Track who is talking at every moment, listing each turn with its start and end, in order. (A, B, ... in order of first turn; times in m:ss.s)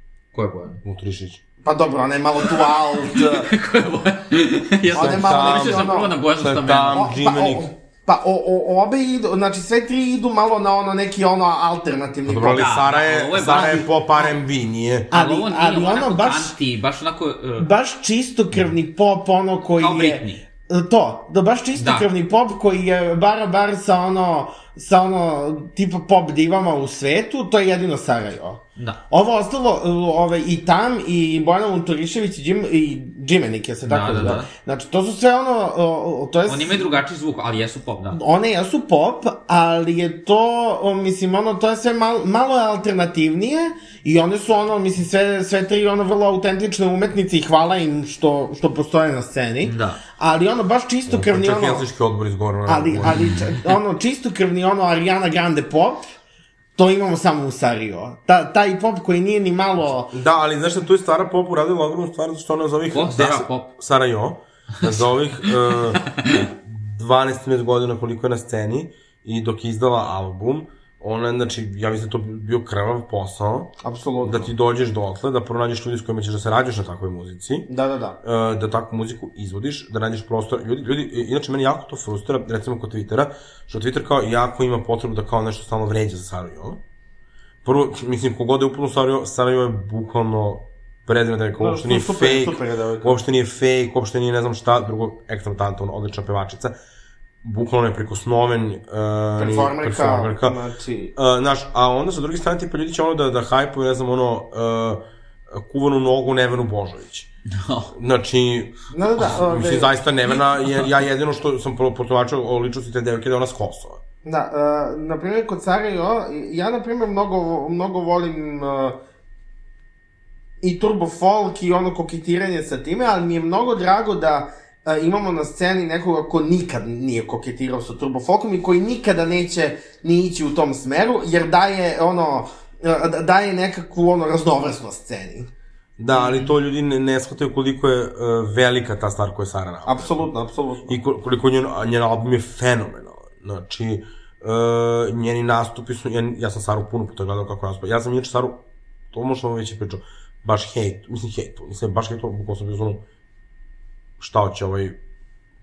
0:00.3-0:00.8 A
0:00.8-0:01.4 B
0:01.6-0:03.5 C
0:02.4-0:07.0 A
0:04.9-0:07.7 B
0:04.9-0:06.1 C
0:06.9-0:12.7 C
0:12.3-0:15.1 B
0:12.4-0:14.3 A
0:15.1-0:17.7 A
0:15.1-0:16.6 C
0:17.6-0:36.9 C
0:19.8-0:20.4 A
0:21.8-0:22.1 A
0:28.8-0:29.0 A
0:33.9-0:34.5 A
0:36.5-0:38.2 A
0:38.1-0:51.8 C
0:49.6-0:50.0 A
0:51.1-0:53.3 B
0:52.7-0:56.1 C
0:56.8-1:00.1 C
1:00.1-1:17.7 B
1:02.9-1:03.7 A
1:05.4-1:06.4 A
1:13.8-1:14.5 C
1:17.7-1:18.2 C
1:18.2-1:26.8 B
1:27.6-1:36.7 B
1:31.6-1:33.2 C
1:37.4-1:40.6 B
1:39.4-1:41.1 C
1:41.2-1:47.3 B
1:47.5-1:47.9 A
1:47.9-1:54.0 B
1:48.9-1:50.0 C
1:54.2-1:59.0 C
2:00.6-2:15.5 C
2:16.0-2:20.2 B
2:16.1-2:16.5 A
2:19.8-2:21.0 C
2:20.9-2:33.0 B
2:34.2-2:35.0 B